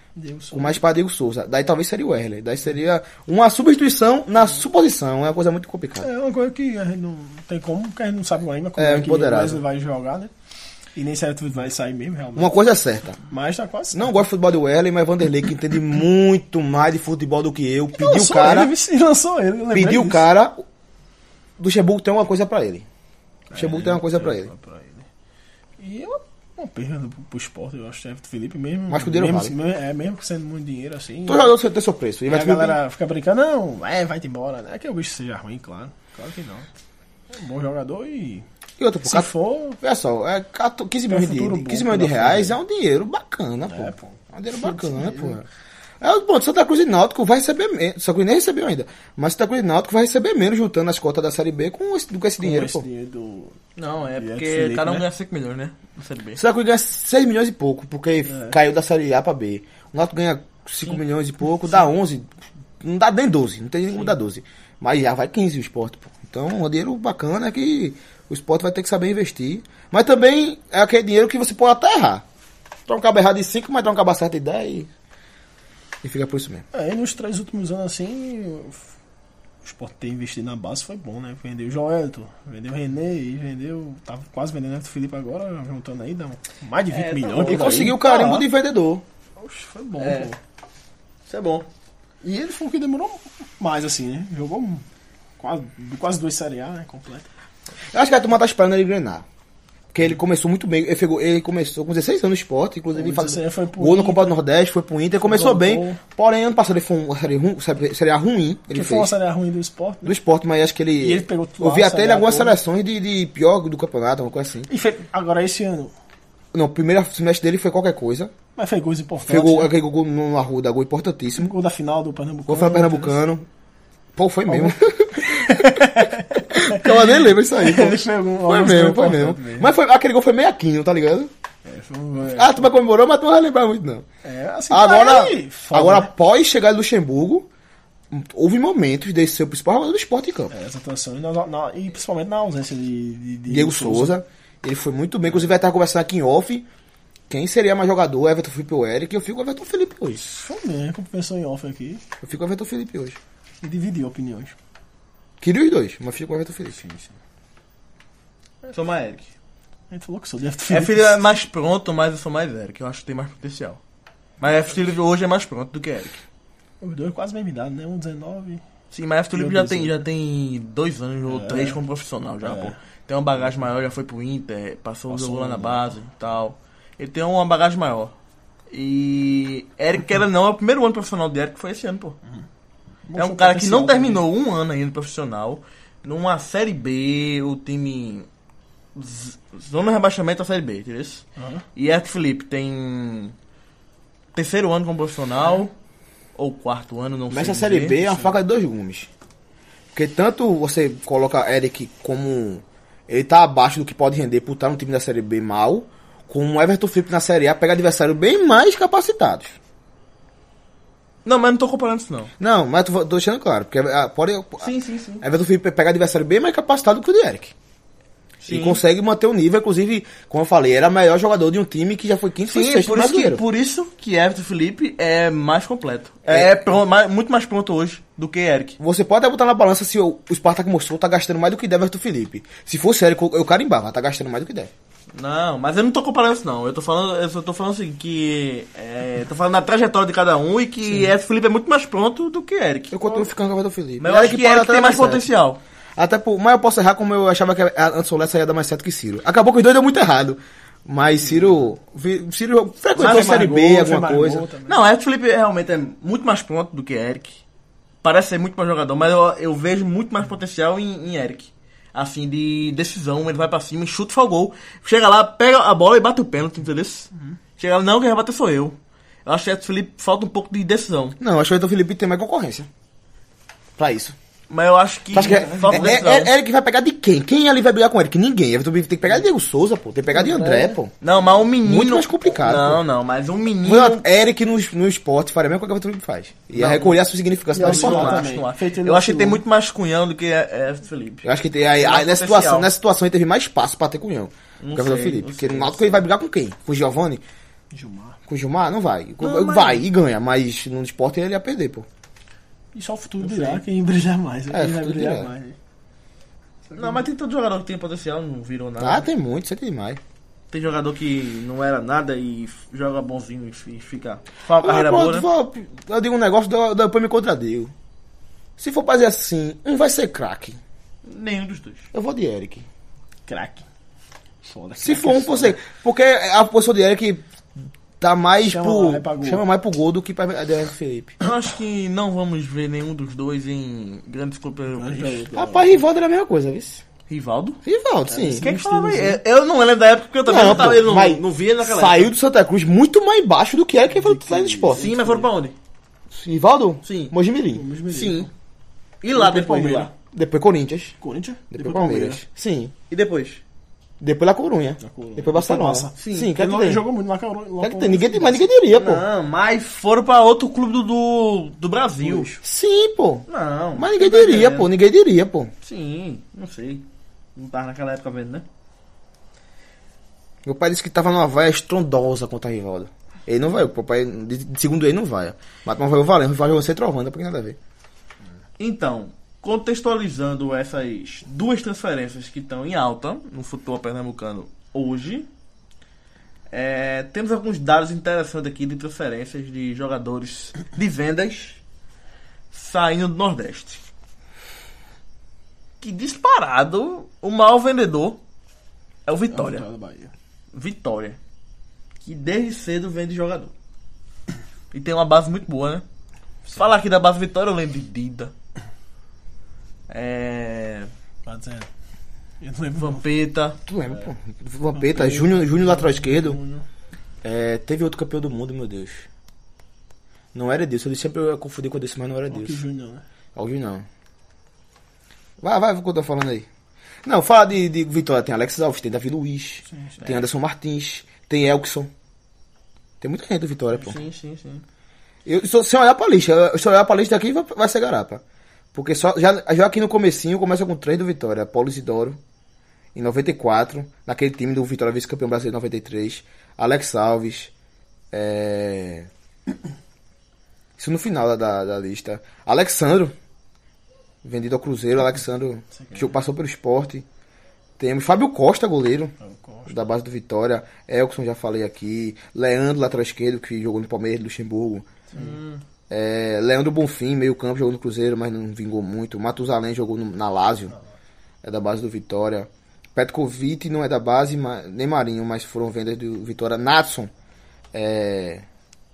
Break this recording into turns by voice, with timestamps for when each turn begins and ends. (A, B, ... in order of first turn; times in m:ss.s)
0:00.2-0:00.8 A
0:00.5-0:06.1 B
0:06.0-0:10.3 A
0:08.8-0:09.6 B
0:11.0-0:12.6 A
0:12.4-0:13.2 B
0:13.3-0:14.1 A
0:13.9-0:18.7 B
0:18.0-0:20.3 A
0:19.7-0:20.6 B
0:21.6-0:22.9 B
0:23.5-0:25.1 A
0:23.6-0:24.5 B
0:25.8-0:31.5 A
0:28.9-0:29.5 B
0:31.3-0:32.8 B
0:32.3-0:36.7 A
0:37.3-0:38.4 A
0:38.8-0:45.4 B
0:39.0-0:39.8 A
0:41.1-0:42.6 A
0:43.7-0:45.4 A
0:46.0-0:52.9 B
0:52.4-0:53.6 A
0:53.8-0:56.4 C
0:54.2-0:55.0 A
0:56.4-1:12.2 B
0:58.3-0:58.6 A
1:12.9-1:14.9 B
1:16.0-1:16.6 B
1:16.7-1:18.9 A
1:19.6-1:28.5 A
1:26.9-1:28.0 C
1:27.4-1:29.0 B
1:29.4-1:30.4 A
1:30.0-1:30.3 C
1:31.3-1:31.7 C
1:32.2-1:34.8 A
1:35.4-1:37.3 A
1:37.9-1:39.2 B
1:39.9-1:49.1 B
1:42.9-1:44.3 A
1:45.2-1:46.0 A
1:48.7-1:50.1 A
1:50.0-1:54.7 B
1:51.0-1:52.6 A
1:54.7-1:55.9 A
1:56.5-1:58.3 B
1:58.6-1:59.7 A
1:59.3-2:01.5 B
2:01.4-2:03.2 A
2:02.5-2:03.5 B
2:04.2-2:11.3 B
2:04.5-2:09.7 A
2:11.6-2:12.7 A
2:12.4-2:14.0 B
2:14.2-2:16.1 A
2:14.7-2:17.5 B
2:18.1-2:20.5 B
2:20.5-2:24.2 A
2:23.5-2:26.7 B
2:27.3-2:30.2 B
2:30.2-2:32.0 A
2:32.2-2:33.2 B
2:33.6-2:34.6 A
2:35.4-2:36.8 B
2:36.7-2:37.1 A
2:38.7-2:39.3 C
2:39.9-2:41.2 A
2:40.7-2:43.8 C
2:44.4-2:46.2 C
2:46.8-2:48.6 A
2:48.9-2:58.1 C
2:49.3-2:50.0 A
2:51.3-2:51.8 A
2:52.4-2:52.7 A
2:55.1-2:56.0 A
2:58.7-3:02.2 C
3:03.1-3:04.2 A
3:03.2-3:08.3 C
3:09.0-3:11.2 C
3:11.4-3:11.6 A
3:11.8-3:13.3 C
3:14.3-3:15.7 C
3:16.4-3:18.0 C
3:17.3-3:19.1 B
3:18.0-3:18.4 A
3:19.9-3:29.6 B
3:31.2-3:32.3 C
3:32.4-3:37.5 B
3:34.6-3:35.2 C
3:38.4-3:38.8 C
3:38.5-3:43.4 B
3:42.4-3:48.8 C
3:46.3-3:46.6 B
3:48.8-3:54.7 B
3:55.1-4:03.3 C
4:02.9-4:05.3 B
4:04.0-4:05.6 C
4:06.0-4:14.4 B
4:13.0-4:14.8 A
4:13.0-4:13.5 C
4:14.7-4:17.4 C
4:18.0-4:31.2 C
4:31.2-4:32.7 B
4:33.8-4:34.2 B
4:34.5-4:36.3 C
4:35.1-4:40.9 B
4:35.2-4:36.0 A
4:40.1-4:40.8 A
4:41.0-4:44.0 C
4:41.6-4:42.8 B
4:43.6-4:48.3 B
4:46.5-4:47.0 C
4:47.5-4:49.4 A
4:47.6-4:52.7 C
4:51.2-4:57.2 B
4:54.6-4:56.0 C
4:57.7-4:58.2 A
4:58.3-5:01.9 B
4:59.2-4:59.8 C
5:02.7-5:05.6 A
5:03.2-5:03.6 C
5:04.5-5:05.3 B
5:06.7-5:07.0 A
5:06.8-5:09.1 C
5:08.8-5:10.0 B
5:10.5-5:15.3 C
5:14.6-5:17.7 B
5:18.6-5:20.6 B
5:21.0-5:21.9 C
5:21.9-5:22.7 B
5:23.3-5:23.7 A
5:24.4-5:25.6 A
5:24.8-5:27.2 B
5:28.0-5:31.1 B
5:28.4-5:29.4 A
5:31.2-5:35.2 C
5:34.7-5:35.8 A
5:35.3-5:36.8 B
5:37.1-5:37.6 C
5:37.6-5:38.4 B
5:38.1-5:39.2 A
5:38.4-5:42.1 C
5:40.3-5:44.9 B
5:43.9-5:45.3 A
5:44.7-5:45.5 C
5:46.1-5:47.6 B
5:46.8-5:47.1 C
5:47.5-5:48.3 A
5:47.9-5:48.3 C
5:49.0-5:49.9 C
5:49.1-5:49.9 A
5:50.1-5:51.0 B
5:51.0-5:52.2 A
5:51.5-5:52.7 B
5:52.9-5:53.4 C
5:54.0-5:56.8 B
5:54.8-5:58.5 A
5:56.0-5:56.3 C
5:57.6-5:59.0 B
5:58.7-6:02.3 C
6:02.3-6:05.5 B
6:03.3-6:04.7 C
6:05.6-6:06.8 C
6:07.4-6:08.4 C
6:10.4-6:17.6 B
6:18.6-6:25.3 C
6:26.5-6:31.6 C
6:32.5-6:33.8 C
6:35.8-6:38.2 C
6:39.0-6:39.6 C
6:39.3-6:40.1 A
6:40.5-6:41.2 C
6:42.0-6:43.5 C
6:44.7-6:45.8 C
6:46.6-6:48.3 C
6:49.9-6:50.9 C
6:51.3-6:51.7 A
6:52.4-6:53.0 A
6:52.8-6:53.6 C
6:53.7-6:56.4 B
6:54.7-6:56.6 A
6:57.2-6:59.1 B
7:00.3-7:02.6 B
7:02.3-7:03.0 A
7:03.4-7:03.9 B
7:05.4-7:06.4 B
7:07.0-7:11.9 B
7:09.7-7:10.2 A
7:13.0-7:14.0 B
7:13.8-7:14.6 C
7:15.3-7:18.2 B
7:18.7-7:22.2 B
7:23.0-7:27.5 B
7:28.1-7:29.1 B
7:30.8-7:33.1 B
7:34.2-7:37.0 B
7:35.7-7:36.1 A
7:37.8-7:39.1 B
7:39.2-7:39.8 A
7:39.7-7:44.9 B
7:45.1-7:45.4 A
7:45.1-7:45.6 C
7:45.9-7:50.7 B
7:51.4-7:57.1 B
7:57.7-7:58.4 B